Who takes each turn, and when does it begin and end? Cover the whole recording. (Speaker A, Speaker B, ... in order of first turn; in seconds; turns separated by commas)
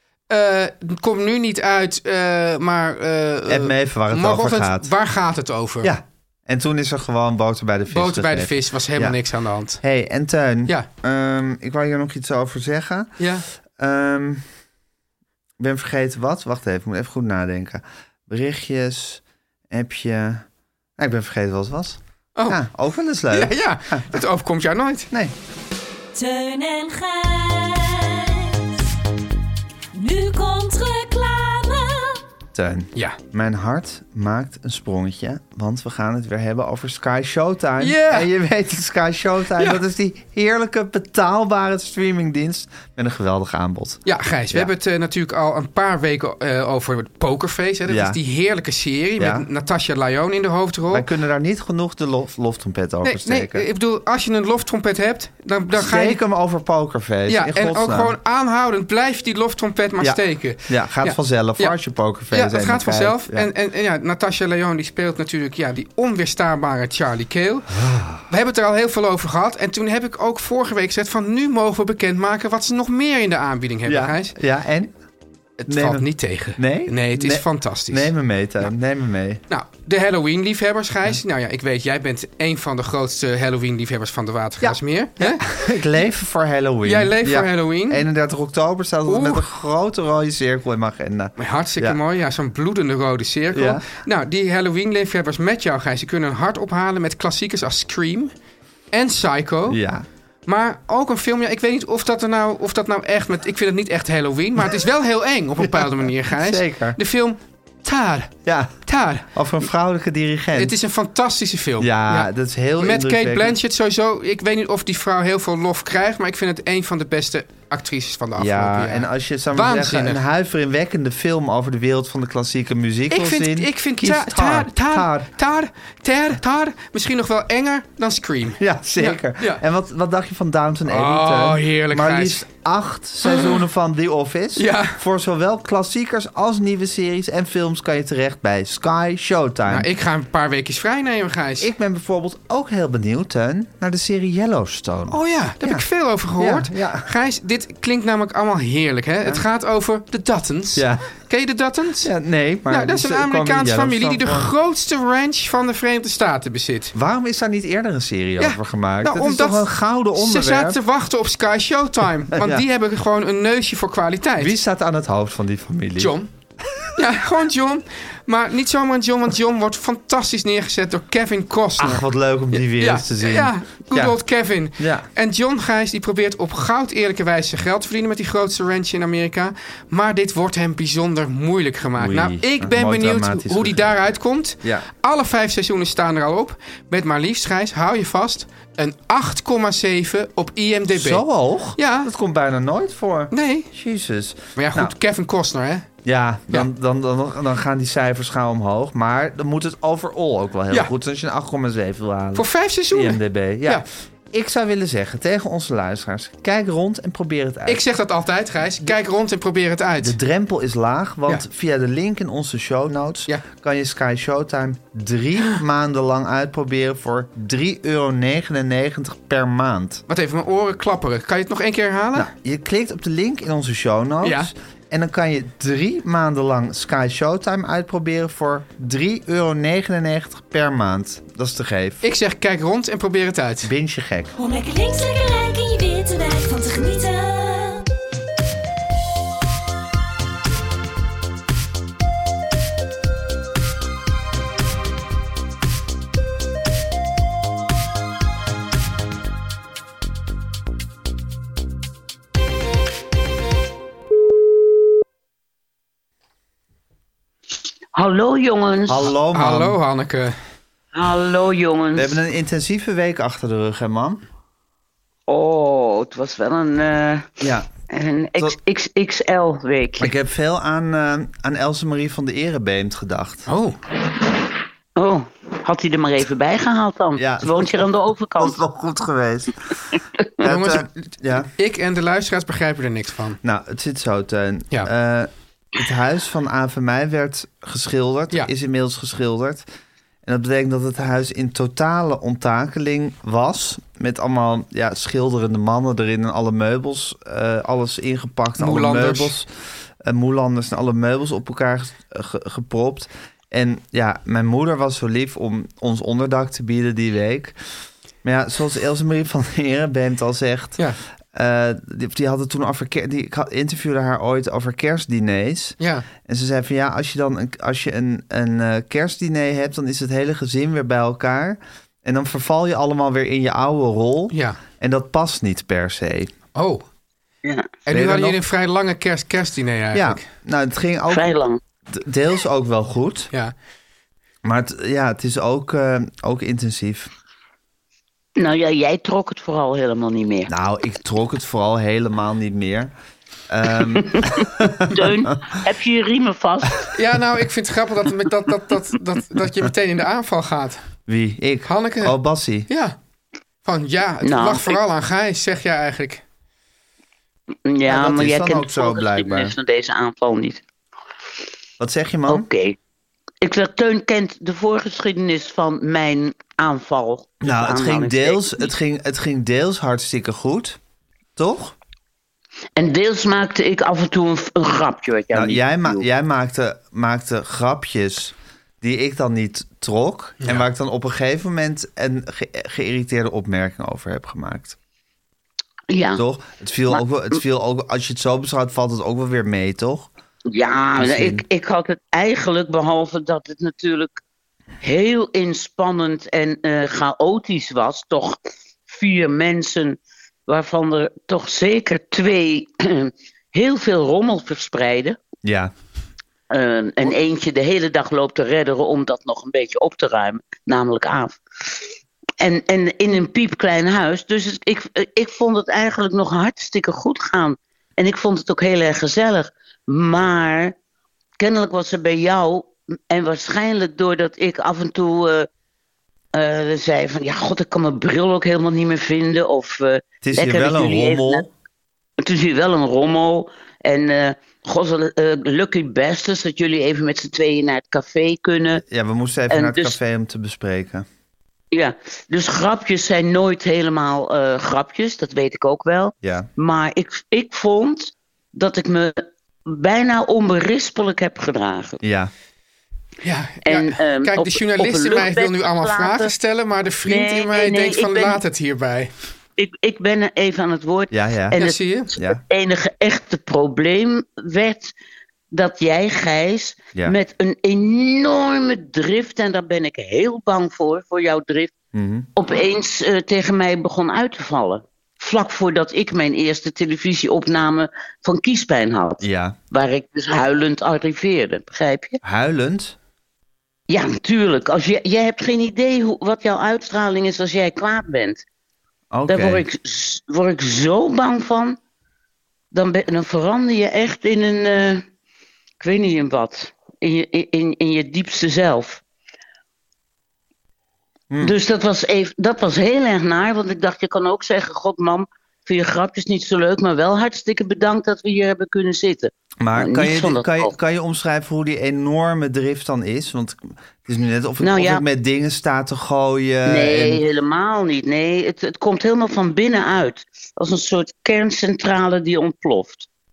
Speaker A: 0.3-5.9, Speaker B: 3.5-4.9, Speaker B: 5.8-9.2, Speaker A: 7.9-9.8, Speaker B: 9.8-13.1, Speaker A: 13.2-13.5, Speaker B: 13.8-14.4, Speaker B: 15.6-20.5, Speaker B: 21.0-24.2, Speaker A: 23.3-25.1, Speaker C: 26.1-28.9, Speaker C: 29.9-32.2, Speaker B: 32.5-44.7, Speaker A: 37.8-38.3, Speaker A: 44.1-51.1, Speaker B: 47.9-48.2, Speaker B: 49.2-49.5, Speaker B: 50.9-53.7, Speaker A: 53.0-56.2, Speaker B: 55.8-58.2, Speaker A: 57.3-61.8, Speaker B: 60.0-63.5, Speaker A: 62.3-74.3, Speaker B: 67.7-68.2, Speaker B: 73.9-74.9, Speaker A: 75.6-78.1, Speaker B: 75.7-79.4, Speaker A: 79.5-85.6, Speaker B: 84.6-92.0, Speaker A: 86.8-88.0, Speaker A: 89.1-89.4, Speaker A: 91.4-98.3, Speaker B: 93.5-93.9, Speaker A: 98.9-99.8, Speaker B: 99.7-100.1, Speaker A: 100.5-108.3, Speaker B: 105.6-107.0, Speaker B: 108.5-108.8, Speaker A: 108.9-109.3, Speaker B: 109.3-110.7, Speaker A: 110.6-120.2, Speaker B: 111.8-113.6, Speaker B: 118.4-125.3, Speaker A: 123.1-129.6, Speaker B: 128.6-139.9, Speaker A: 130.9-132.4, Speaker A: 133.3-133.6, Speaker A: 134.6-135.0, Speaker A: 139.7-141.7, Speaker B: 141.6-145.8, Speaker A: 145.1-152.1, Speaker B: 146.4-147.1, Speaker B: 150.8-151.1, Speaker B: 152.0-154.5, Speaker A: 152.7-156.9, Speaker B: 156.9-160.8, Speaker A: 158.4-164.6, Speaker B: 162.3-162.7, Speaker B: 164.4-166.2, Speaker A: 166.0-166.3, Speaker A: 166.9-191.2, Speaker B: 171.8-174.2, Speaker B: 174.8-175.1, Speaker B: 182.0-183.9, Speaker B: 190.9-194.9, Speaker A: 191.8-192.1, Speaker A: 193.3-193.7, Speaker A: 194.6-195.9, Speaker B: 196.1-207.8, Speaker A: 202.3-203.9, Speaker A: 207.7-210.2, Speaker B: 210.0-220.0, Speaker A: 220.1-222.3, Speaker B: 222.2-232.0, Speaker A: 224.2-224.5, Speaker A: 232.0-233.7, Speaker B: 233.6-234.3, Speaker C: 234.3-237.9, Speaker D: 257.9-259.1, Speaker B: 258.9-259.8, Speaker A: 259.3-260.4, Speaker D: 260.9-262.2, Speaker B: 261.9-264.2, Speaker D: 265.3-267.4, Speaker B: 267.4-267.7, Speaker D: 267.9-270.1, Speaker B: 270.0-273.5, Speaker A: 273.5-273.8, Speaker D: 274.1-278.6, Speaker B: 277.2-277.9, Speaker B: 278.4-279.7, Speaker B: 280.4-281.5, Speaker A: 280.4-283.4, Speaker B: 283.4-289.6, Speaker B: 290.2-299.5, Speaker A: 298.6-299.3, Speaker B: 300.0-307.6, Speaker B: 308.2-310.8, Speaker B: 311.3-326.3, Speaker A: 315.8-316.1, Speaker A: 324.3-324.6, Speaker A: 326.6-326.8, Speaker D: 327.4-327.8, Speaker A: 327.9-330.2, Speaker B: 327.9-328.4, Speaker B: 329.9-331.3, Speaker D: 331.1-331.6, Speaker B: 331.9-333.3, Speaker B: 334.4-337.1, Speaker D: 338.4-340.5, Speaker B: 340.5-342.9, Speaker B: 343.5-345.3, Speaker D: 343.8-346.9, Speaker A: 346.9-350.8, Speaker B: 351.1-352.7, Speaker A: 351.7-352.2, Speaker A: 352.7-353.0, Speaker A: 353.6-356.2, Speaker D: 354.2-354.8, Speaker D: 357.7-360.6, Speaker B: 357.9-359.6, Speaker B: 361.8-362.5, Speaker D: 362.3-362.8, Speaker D: 363.4-368.7, Speaker B: 367.4-370.8, Speaker B: 371.4-371.8, Speaker D: 372.8-376.1, Speaker B: 375.3-384.8, Speaker D: 385.9-386.2, Speaker B: 386.2-390.1, Speaker D: 390.5-394.2, Speaker B: 391.0-391.4, Speaker D: 394.8-405.2, Speaker B: 405.4-405.7, Speaker D: 406.5-420.8, Speaker D: 421.4-425.5, Speaker D: 426.3-431.5, Speaker B: 430.2-431.5, Speaker D: 432.2-438.8, Speaker B: 438.8-441.1, Speaker D: 439.5-440.0, Speaker D: 441.7-452.0, Speaker B: 446.2-446.5, Speaker B: 452.0-452.3, Speaker A: 453.2-459.1, Speaker D: 453.6-456.3, Speaker D: 457.1-458.4, Speaker D: 459.6-464.9, Speaker B: 461.1-461.6, Speaker A: 461.6-462.1, Speaker D: 465.5-471.7, Speaker B: 471.9-472.3, Speaker D: 472.4-482.2, Speaker B: 479.2-479.6, Speaker B: 482.2-483.0, Speaker D: 483.9-488.4, Speaker B: 489.1-489.6, Speaker D: 489.3-491.8, Speaker D: 492.7-495.0, Speaker D: 495.8-499.0, Speaker D: 501.4-510.7, Speaker B: 509.6-517.2, Speaker D: 514.6-515.0, Speaker D: 516.6-523.1